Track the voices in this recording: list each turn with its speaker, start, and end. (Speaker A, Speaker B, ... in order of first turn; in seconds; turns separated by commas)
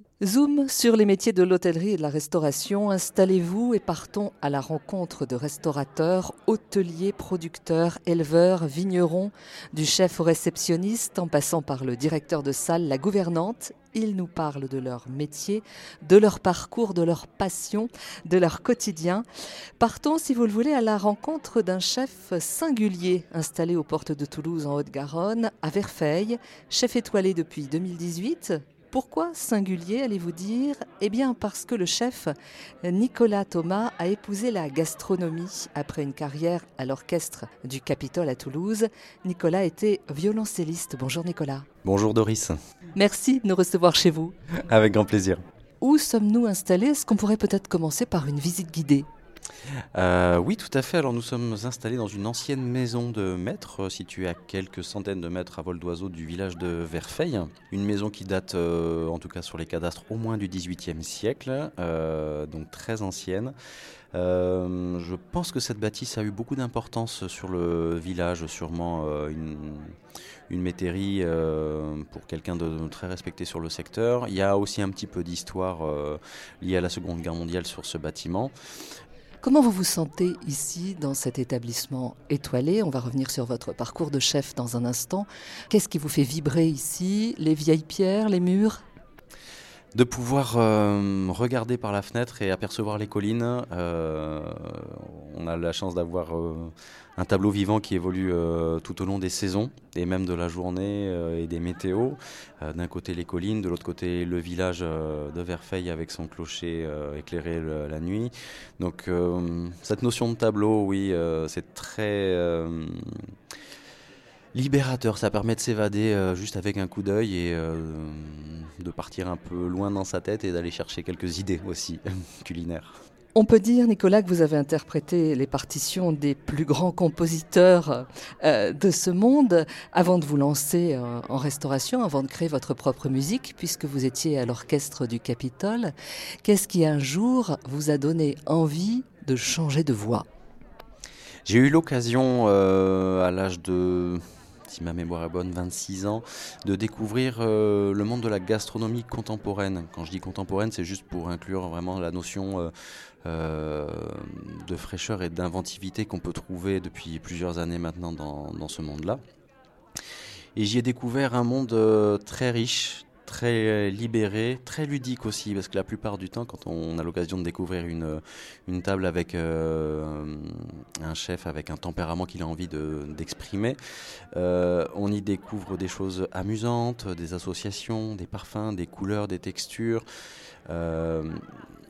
Speaker A: 0.2-19.2, Speaker A: 19.8-32.3, Speaker A: 32.8-41.6, Speaker B: 41.8-42.5, Speaker A: 42.9-44.3, Speaker B: 44.7-45.4, Speaker A: 45.8-49.1, Speaker B: 49.9-63.5, Speaker B: 64.1-69.9, Speaker B: 70.5-78.5, Speaker A: 79.4-88.8, Speaker B: 89.9-113.3, Speaker B: 114.5-123.0, Speaker A: 123.3-135.9, Speaker A: 136.4-140.2, Speaker B: 141.4-152.7, Speaker B: 153.2-159.2, Speaker B: 160.6-173.8, Speaker B: 174.3-180.0, Speaker B: 180.7-181.4